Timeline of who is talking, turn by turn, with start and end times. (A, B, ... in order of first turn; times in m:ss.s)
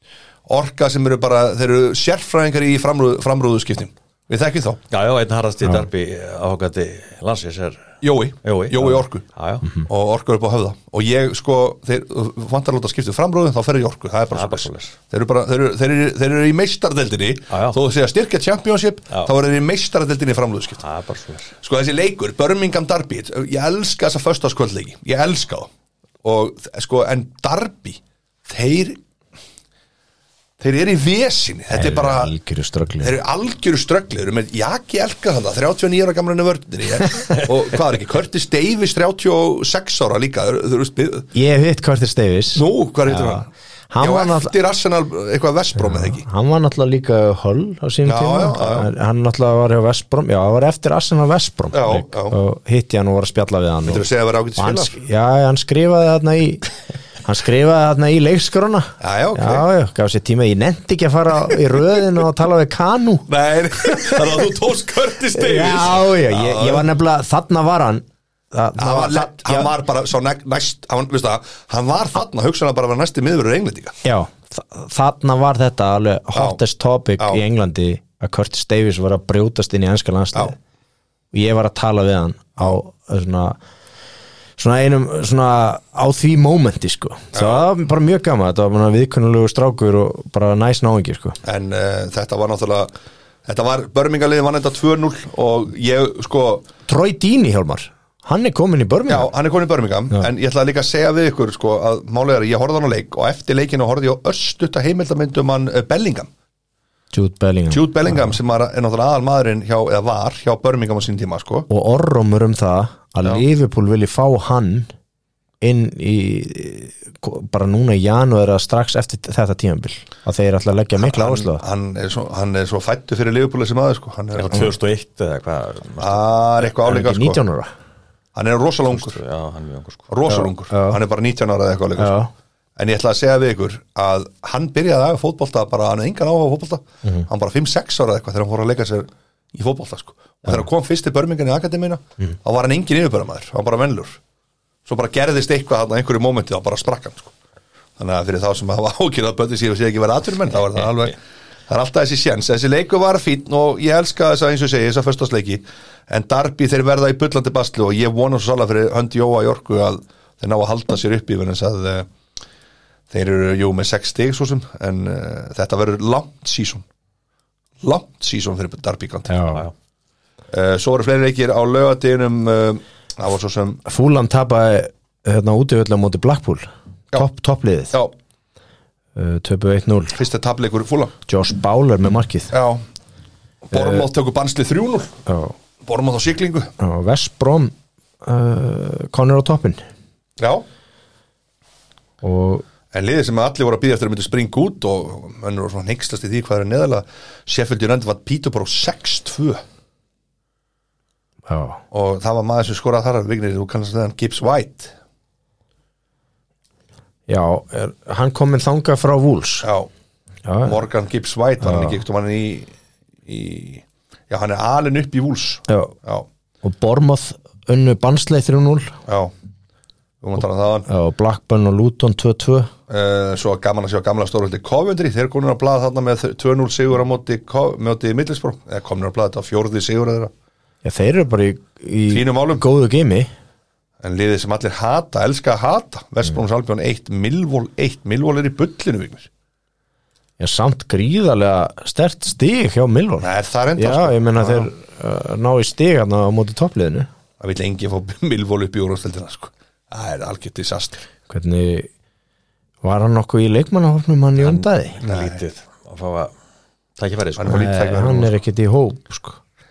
0:00.5-0:04.8 A
0:04.9-0:09.7 B
0:08.0-0:09.2 A
0:09.8-0:20.8 A
0:14.3-0:14.9 B
0:17.5-0:17.8 B
0:20.8-0:21.5 B
0:21.6-0:25.7 A
0:26.2-0:29.0 A
0:30.6-0:32.3 A
0:31.7-0:33.2 C
0:33.0-0:41.3 A
0:41.3-0:44.5 C
0:42.5-0:43.5 A
0:44.0-0:46.2 A
0:45.8-0:54.0 C
0:48.0-0:48.9 A
0:51.7-0:52.4 A
0:53.8-0:55.0 A
0:54.6-0:56.6 C
0:57.2-1:04.4 C
0:59.0-0:59.6 A
1:03.3-1:06.9 A
1:05.3-1:09.7 C
1:08.8-1:14.0 A
1:14.0-1:20.6 C
1:16.3-1:16.6 A
1:21.3-1:23.6 C
1:24.6-1:31.4 C
1:27.3-1:27.6 A
1:31.4-1:32.9 A
1:33.4-1:36.7 A
1:36.9-1:39.3 C
1:39.1-1:46.3 A
1:47.1-1:48.4 C
1:47.7-1:51.7 A
1:51.7-1:54.9 C
1:55.6-2:01.6 C
2:01.0-2:04.7 A
2:04.3-2:06.3 B
2:06.0-2:07.4 A
2:06.8-2:07.7 C
2:08.3-2:09.2 A
2:08.9-2:10.1 B
2:10.1-2:12.2 A
2:10.3-2:11.0 C
2:12.0-2:12.3 C
2:12.8-2:24.2 A
2:24.8-2:27.3 A
2:28.0-2:42.1 A
2:43.1-2:46.8 A
2:47.8-2:49.4 A
2:49.3-2:49.6 C
2:50.5-2:53.8 A
2:53.8-2:57.9 C
2:59.1-3:00.2 C
3:00.1-3:01.1 A
3:01.3-3:02.5 C
3:02.5-3:02.8 A
3:03.7-3:05.2 A
3:03.7-3:04.1 C
3:05.3-3:05.5 C
3:05.8-3:06.7 A
3:06.8-3:09.8 C
3:10.4-3:10.6 A
3:12.2-3:12.6 C
3:12.9-3:19.6 A
3:21.5-3:21.8 C
3:21.9-3:24.9 A
3:27.3-3:29.7 C
3:29.6-3:29.9 A
3:30.4-3:30.8 C
3:30.6-3:32.7 A
3:31.6-3:32.0 C
3:33.2-3:36.2 A
3:35.7-3:35.9 C
3:36.6-3:39.0 C
3:39.1-3:39.3 A
3:40.2-3:40.9 A
3:40.9-3:42.7 C
3:42.9-3:50.3 A
3:50.8-3:53.3 C
3:52.1-3:52.6 A
3:54.0-3:59.3 A
4:00.4-4:07.1 C
4:03.2-4:04.7 A
4:07.4-4:11.0 A
4:11.3-4:11.9 C
4:12.8-4:15.0 C
4:14.4-4:16.3 B
4:15.0-4:15.4 A
4:17.0-4:17.7 B
4:17.4-4:18.4 A
4:17.5-4:19.4 C